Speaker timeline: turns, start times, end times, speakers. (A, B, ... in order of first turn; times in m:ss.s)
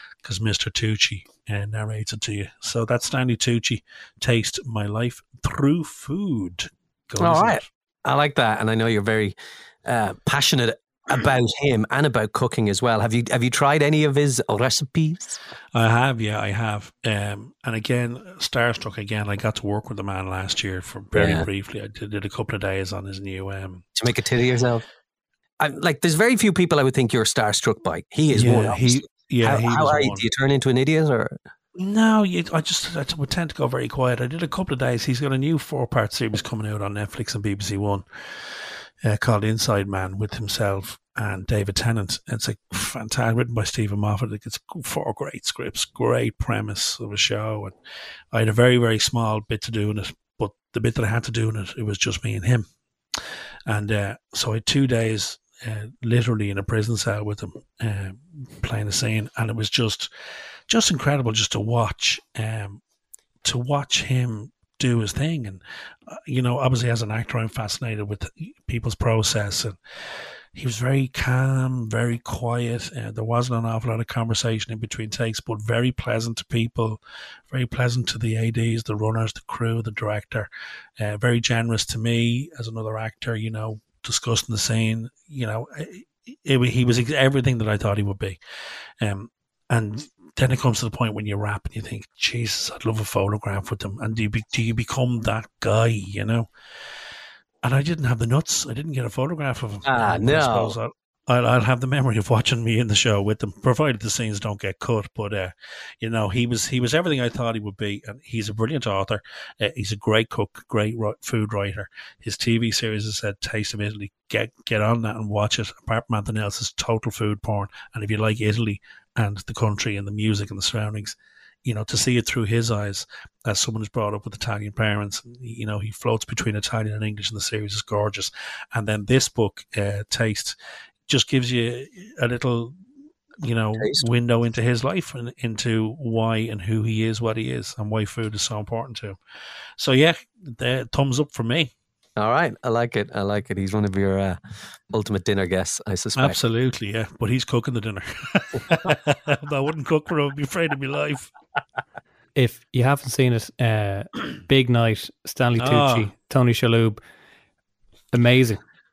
0:00.2-0:07.6 A
0:07.2-0:15.4 B
0:15.7-0:23.8 A
0:21.1-0:21.5 B
0:24.0-0:24.8 B
0:25.6-0:31.4 B
0:28.3-0:30.2 A
0:31.8-0:47.7 A
0:48.3-0:52.6 A
0:53.7-1:00.1 A
1:00.7-1:02.8 A
1:03.4-1:09.8 A
1:10.5-1:28.4 A
1:29.0-1:36.5 A
1:37.6-2:10.5 A
1:39.8-1:40.8 B
2:11.1-2:12.7 A
2:13.4-2:19.2 A
2:13.8-2:14.0 B
2:19.8-2:21.7 A
2:22.2-2:24.4 B
2:24.9-2:26.4 B
2:26.2-2:31.3 A
2:32.3-2:37.0 C
2:35.6-2:36.1 A
2:38.1-2:38.6 C